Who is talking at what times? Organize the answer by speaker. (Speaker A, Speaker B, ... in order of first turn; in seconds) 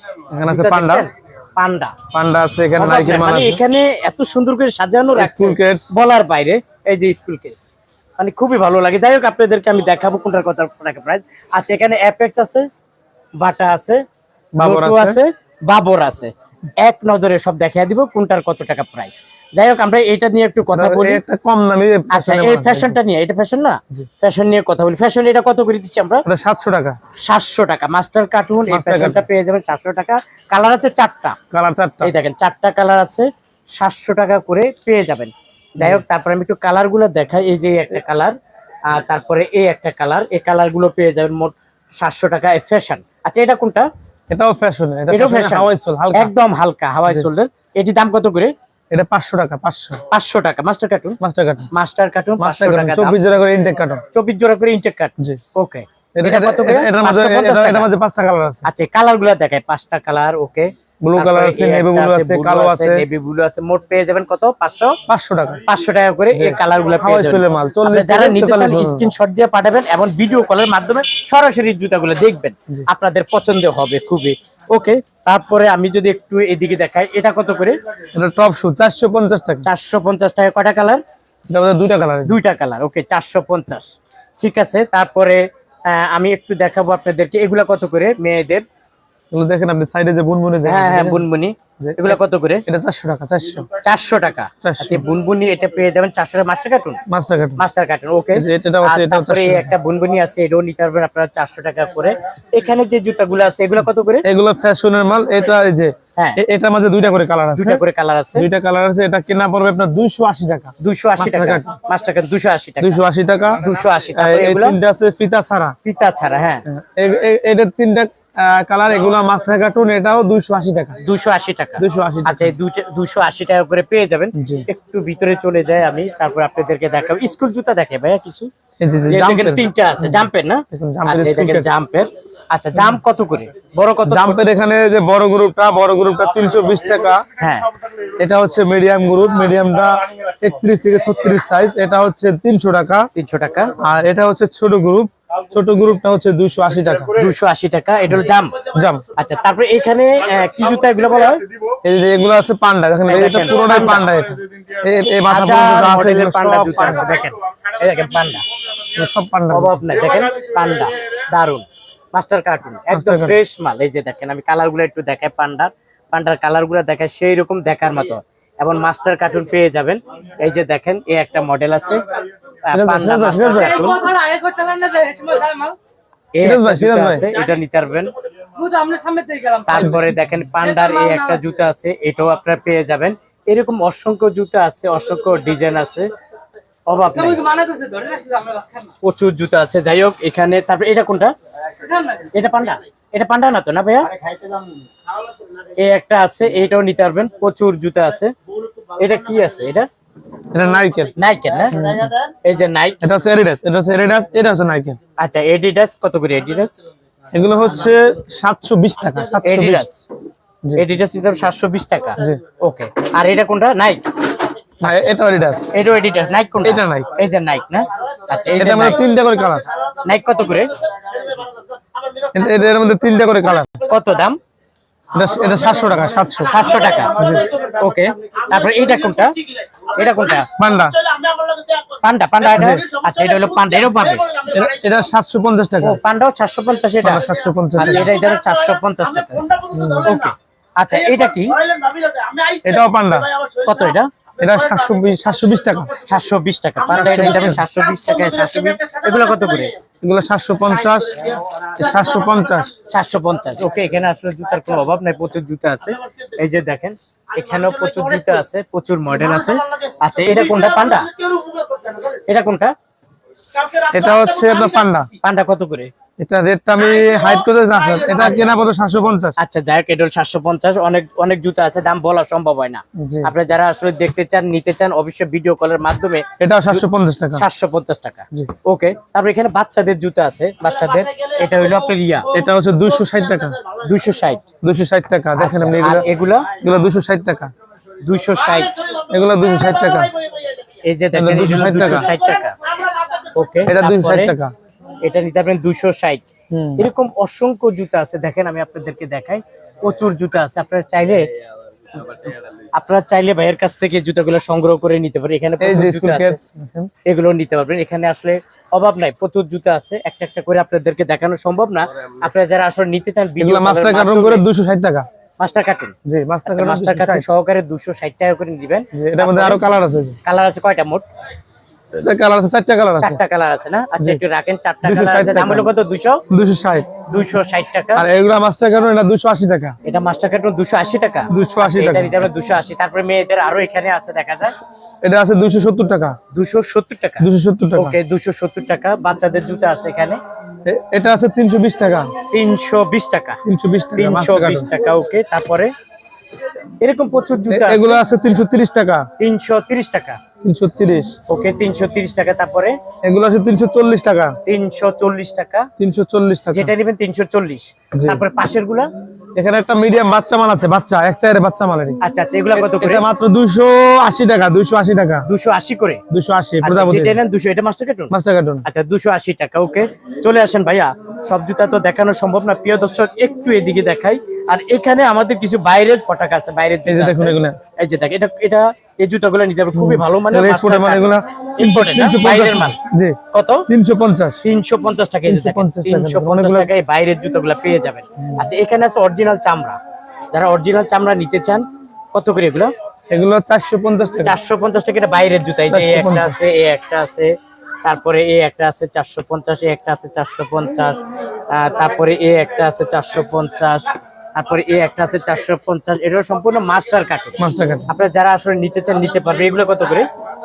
Speaker A: 0.3-1.1, 2.1-3.6, 5.2-5.9, 14.6-15.2, 20.7-23.0, 26.2-27.0, 28.7-29.2, 31.5-32.1, 44.3-46.3, 48.9-50.0, 51.2-51.7, 52.4-54.0, 56.2-58.6, 61.0-63.0, 65.1-65.6, 66.3-69.1, 78.2-79.7, 81.5-82.3, 89.3-91.2, 91.8-93.7, 94.6-95.0, 97.1-97.6, 98.4-99.7, 104.2-107.8, 108.3-111.7, 112.8-115.8, 116.7-121.0, 121.8-122.5, 124.3-124.7, 128.8-131.7, 134.1-137.2, 138.2-143.1, 143.8-147.2, 148.7-149.0, 151.8-157.1, 158.9-159.8, 162.9-163.3, 172.7-173.8, 176.4-177.3, 200.5-201.1, 201.7-202.1, 203.0-205.0, 207.3-209.8, 214.8-215.7, 216.6-217.1, 218.6-219.7, 222.3-223.7, 225.1-227.5, 230.6-231.0, 232.5-232.8, 234.5-236.0, 237.0-238.2, 239.7-240.2, 242.6-243.3, 244.4-245.9, 247.0-247.6, 250.0-252.7, 263.9-265.1, 266.2-269.4, 273.0-273.3, 276.4-277.4, 282.3-283.6, 284.6-287.5, 289.1-290.1, 291.1-292.1, 293.7-294.5, 296.5-296.8, 305.6-306.9, 313.4-315.1, 316.1-317.2, 318.9-320.2, 321.9-323.2, 324.8-325.7, 326.3-326.9, 327.9-329.7, 331.3-332.1, 335.0-336.1, 337.2-337.9, 340.6-342.1, 343.4-344.7, 347.5-349.1, 350.4-351.1, 353.0-354.4, 355.8-356.7, 357.9-358.2, 359.4-362.0, 362.5-365.3, 366.1-367.2, 368.1-368.6, 376.9-377.6, 379.7-383.2, 383.7-384.4, 385.3-386.7, 388.2-388.5, 393.1-394.3, 395.7-396.4, 407.4-407.9
Speaker B: 0.5-1.9, 2.8-12.7, 13.4-14.0, 14.6-21.2, 22.1-26.2, 27.2-31.4, 32.0-38.3, 38.9-43.9, 45.1-48.5, 50.1-51.2, 51.7-53.2, 54.1-57.9, 58.6-65.0, 65.7-77.8, 79.6-81.0, 82.3-83.9, 84.4-88.7, 90.7-92.7, 93.8-97.0, 97.6-104.3, 107.6-108.5, 110.8-113.0, 113.6-114.8, 115.8-116.7, 121.0-128.5, 129.1-134.4, 137.4-137.7, 143.1-143.7, 147.1-148.6, 149.2-151.4, 153.1-154.1, 155.3-158.4, 159.5-172.1, 172.7-174.1, 176.3-178.1, 179.7-186.1, 186.9-187.5, 189.0-191.3, 192.3-194.1, 195.8-198.3, 199.0-199.9, 201.2-203.0, 205.2-206.8, 209.4-210.1, 210.8-215.1, 215.7-219.0, 220.1-220.7, 223.8-224.4, 226.4-230.5, 231.9-234.4, 235.8-241.6, 243.5-244.1, 246.0-249.7, 252.9-261.1, 262.0-262.7, 265.2-265.9, 269.4-282.3, 283.8-284.4, 285.4-286.5, 288.0-288.9, 290.8-292.6, 293.1-294.3, 295.0-296.2, 296.8-301.2, 302.0-306.4, 307.1-314.4, 315.4-315.9, 316.4-319.6, 320.2-321.0, 323.0-326.2, 327.1-328.0, 329.8-334.5, 336.3-340.2, 342.3-343.4, 343.9-345.7, 346.8-348.0, 349.2-350.2, 351.3-352.8, 354.4-355.7, 356.5-358.9, 362.0-363.0, 365.2-366.0, 366.6-368.1, 368.6-382.8, 383.3-383.7, 384.4-389.8, 390.3-392.7, 394.2-397.3, 397.8-401.0, 401.5-407.4, 407.9-410.1
Speaker C: 173.7-175.8, 178.6-179.8, 180.7-181.2, 187.2-188.9, 191.8-192.2